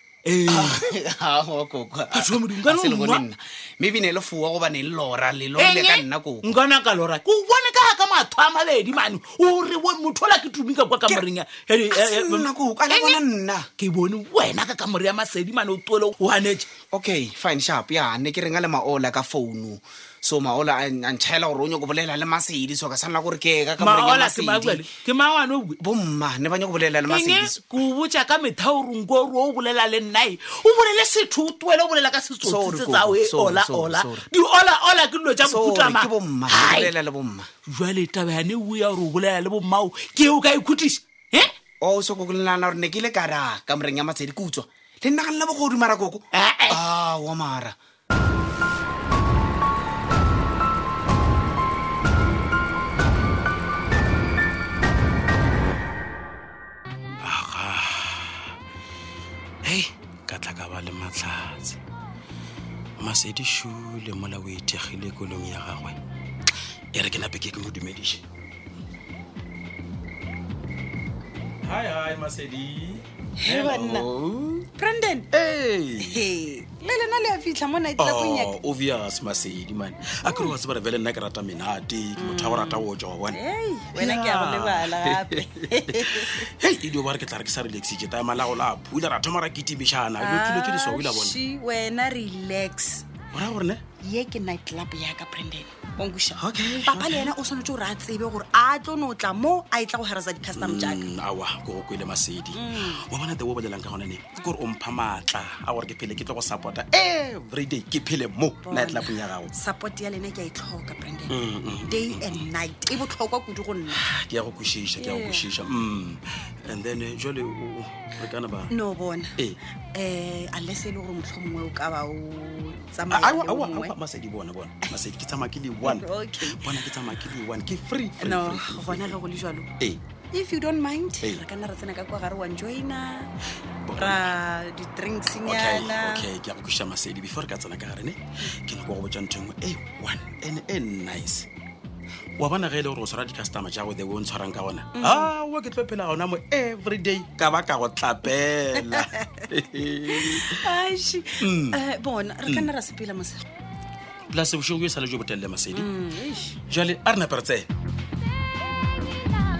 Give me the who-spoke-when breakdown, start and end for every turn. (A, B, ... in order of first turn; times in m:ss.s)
0:00.2-0:00.8 A
0:00.4-0:06.6 B
0:02.4-0:03.2 A
0:05.6-0:12.4 A
0:11.9-0:13.7 B
0:13.8-0:16.7 A
0:16.9-0:24.9 B
0:23.9-0:25.8 A
0:25.8-0:27.8 B
0:27.2-0:36.9 A
0:32.4-0:34.3 B
0:35.4-0:37.5 B
0:37.7-0:41.5 A
0:41.8-0:47.8 B
0:46.3-0:46.8 A
0:57.2-0:58.5 C
0:59.6-1:01.8 C
1:03.0-1:06.0 C
1:06.9-1:08.2 C
1:11.6-1:14.7 C
1:13.4-1:14.1 D
1:14.7-1:15.3 D
1:15.3-1:16.3 C
1:16.0-1:18.6 D
1:18.0-1:23.4 C
1:20.3-1:20.6 D
1:22.2-1:26.5 D
1:23.9-1:31.4 C
1:30.2-1:33.1 D
1:33.3-1:33.8 C
1:34.0-1:41.0 D
1:36.4-1:37.3 C
1:40.5-1:49.5 C
1:42.5-1:43.0 D
1:48.6-1:51.4 D
1:51.3-1:52.5 C
1:51.9-1:54.0 D
1:53.9-1:58.7 C
1:55.0-1:55.5 D
1:58.7-1:59.4 D
1:59.9-2:04.0 D
2:03.1-2:09.2 C
2:05.8-2:06.8 D
2:08.2-2:09.7 D
2:10.3-2:13.3 D
2:13.8-2:14.4 C
2:14.0-2:16.3 D
2:15.4-2:21.5 C
2:22.4-2:30.6 C
2:25.0-2:25.3 D
2:30.1-2:33.4 D
2:31.4-2:31.8 C
2:32.5-2:32.7 C
2:34.3-2:35.9 C
2:35.7-2:36.6 D
2:36.7-2:37.7 C